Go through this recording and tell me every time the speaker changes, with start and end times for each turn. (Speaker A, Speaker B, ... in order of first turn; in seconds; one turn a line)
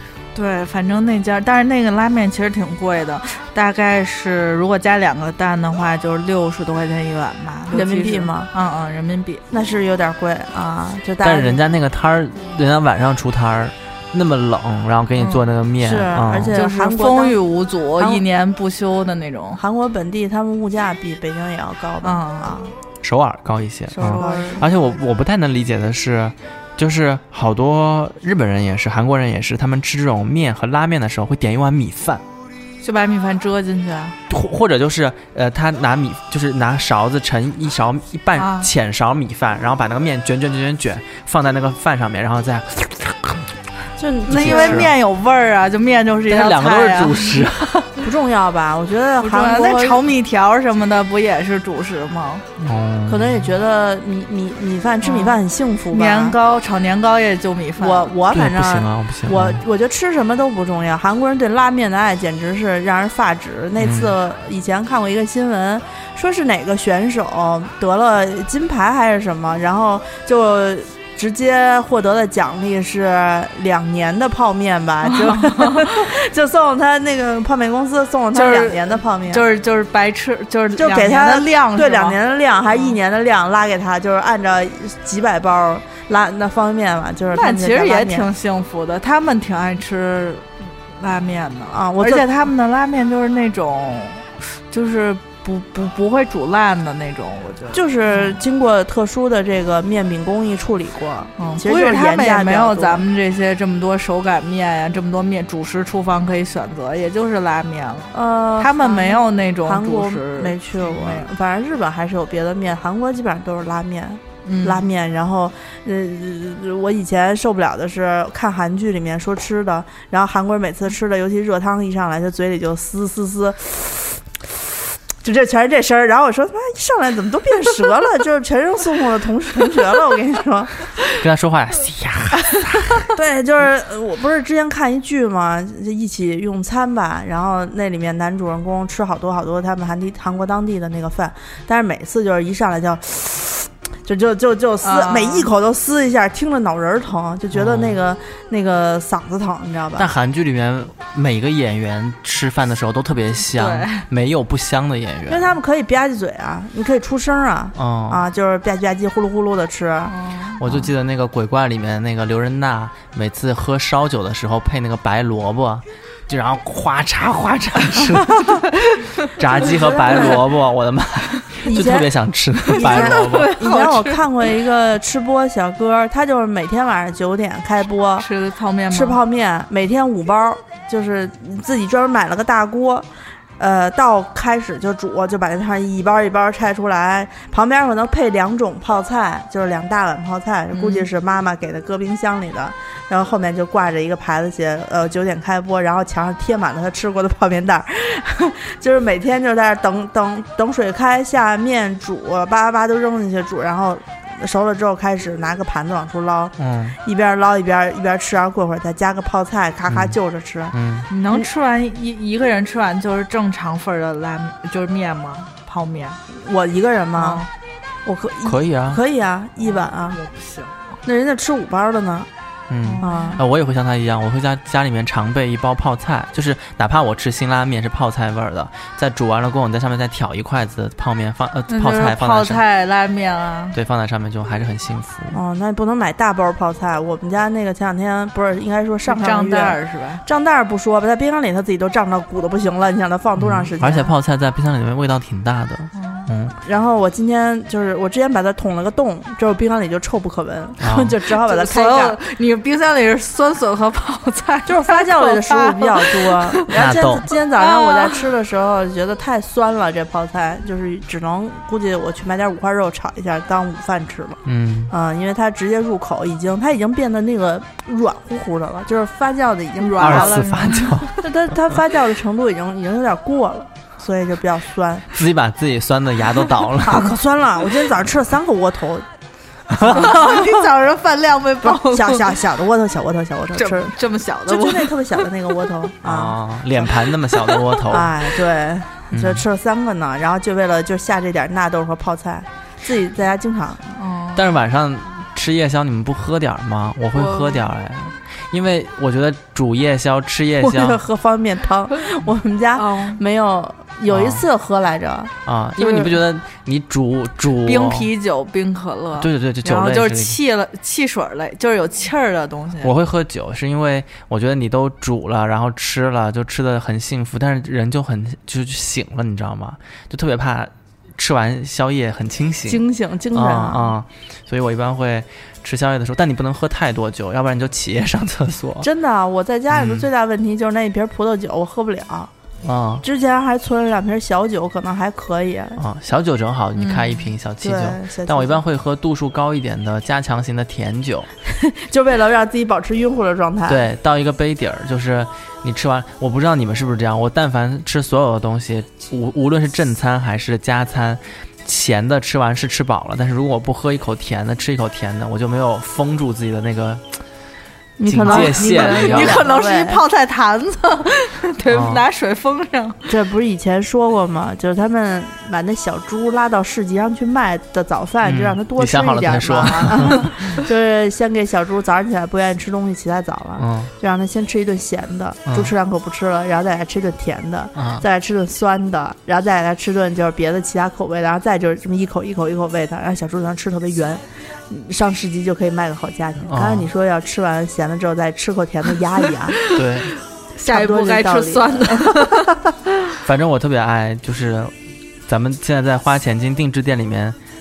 Speaker A: 0.3-9.4
Speaker B: 7.7-8.5
Speaker B: 9.5-11.6
Speaker C: 11.2-16.6
Speaker B: 15.8-17.4
Speaker A: 16.5-19.6
Speaker B: 18.0-18.2
Speaker B: 19.6-22.7
Speaker A: 22.0-22.6
Speaker C: 23.0-32.2
Speaker A: 24.0-24.6
Speaker B: 24.0-24.7
Speaker A: 32.8-34.2
Speaker C: 34.3-43.5
Speaker A: 38.4-38.7
Speaker B: 44.0-44.9
Speaker C: 44.3-44.9
Speaker A: 44.3-47.5
Speaker C: 46.3-48.0
Speaker B: 48.0-50.1
Speaker A: 49.2-52.4
Speaker C: 52.6-53.5
Speaker B: 53.1-56.4
Speaker A: 55.0-58.1
Speaker B: 57.8-79.4
Speaker C: 58.3-59.6
Speaker C: 63.8-64.1
Speaker A: 75.1-75.9
Speaker A: 78.3-82.2
Speaker B: 80.8-88.3
Speaker A: 82.7-83.0
Speaker A: 87.3-98.4
Speaker B: 91.7-92.3
Speaker B: 97.7-103.0
Speaker A: 101.4-111.3
Speaker B: 108.1-124.5
Speaker A: 114.5-114.8
Speaker B: 125.2-130.7
Speaker C: 131.2-133.1
Speaker B: 133.1-150.1
Speaker A: 144.8-145.5
Speaker C: 147.5-148.0
Speaker C: 150.0-155.5
Speaker A: 153.6-154.1
Speaker B: 155.3-160.2
Speaker C: 157.8-158.2
Speaker A: 160.1-160.7
Speaker C: 160.6-168.7
Speaker C: 169.4-173.6
Speaker B: 169.5-170.4
Speaker A: 170.1-170.4
Speaker B: 171.6-172.1
Speaker A: 172.7-174.5
Speaker B: 172.7-178.3
Speaker A: 178.2-179.2
Speaker B: 178.9-210.8
Speaker A: 190.7-191.1
Speaker C: 206.6-207.0
Speaker C: 209.9-210.2
Speaker C: 210.7-211.1
Speaker A: 211.1-216.2
Speaker B: 216.3-217.5
Speaker A: 217.2-217.5
Speaker B: 218.0-220.2
Speaker C: 218.4-219.0
Speaker A: 219.6-220.8
Speaker B: 221.1-222.3
Speaker C: 222.7-232.6
Speaker A: 222.9-223.4
Speaker B: 223.0-223.4
Speaker A: 231.7-233.8
Speaker C: 233.7-235.4
Speaker B: 235.3-244.1
Speaker A: 239.1-240.2
Speaker C: 243.4-246.6
Speaker A: 245.9-246.3
Speaker B: 246.6-252.2
Speaker C: 250.8-251.1
Speaker A: 251.3-256.7
Speaker B: 254.7-275.1
Speaker C: 256.7-257.3
Speaker A: 257.5-258.3
Speaker C: 264.4-264.9
Speaker A: 269.8-271.0
Speaker C: 270.0-271.6
Speaker C: 275.1-277.2
Speaker B: 276.8-279.1
Speaker C: 279.7-280.1
Speaker B: 279.8-280.5
Speaker A: 279.8-282.4
Speaker B: 281.6-286.8
Speaker A: 283.6-285.3
Speaker C: 286.0-288.1
Speaker A: 287.3-287.9
Speaker B: 287.9-293.9
Speaker C: 289.1-289.4
Speaker A: 294.0-294.5
Speaker C: 294.4-301.0
Speaker A: 297.1-297.6
Speaker B: 300.6-305.3
Speaker A: 302.8-303.2
Speaker C: 304.1-304.4
Speaker C: 305.4-308.1
Speaker A: 307.6-312.9
Speaker C: 309.2-310.4
Speaker C: 312.8-328.9
Speaker B: 322.7-323.9
Speaker B: 328.8-332.3
Speaker C: 329.7-330.1
Speaker C: 332.6-333.0
Speaker B: 333.0-335.8
Speaker C: 335.8-341.3
Speaker A: 336.8-337.3
Speaker B: 337.6-338.6
Speaker B: 341.5-343.9
Speaker C: 343.7-357.1
Speaker B: 358.0-360.0
Speaker C: 358.1-359.5
Speaker A: 358.2-363.1
Speaker C: 361.7-362.0
Speaker B: 363.1-389.6
Speaker C: 368.2-370.6
Speaker C: 373.6-373.9
Speaker C: 375.5-375.7
Speaker C: 377.8-378.0
Speaker C: 386.4-386.9
Speaker A: 389.5-392.6
Speaker C: 389.7-390.1
Speaker B: 390.6-392.5
Speaker C: 393.2-394.7
Speaker C: 395.3-397.4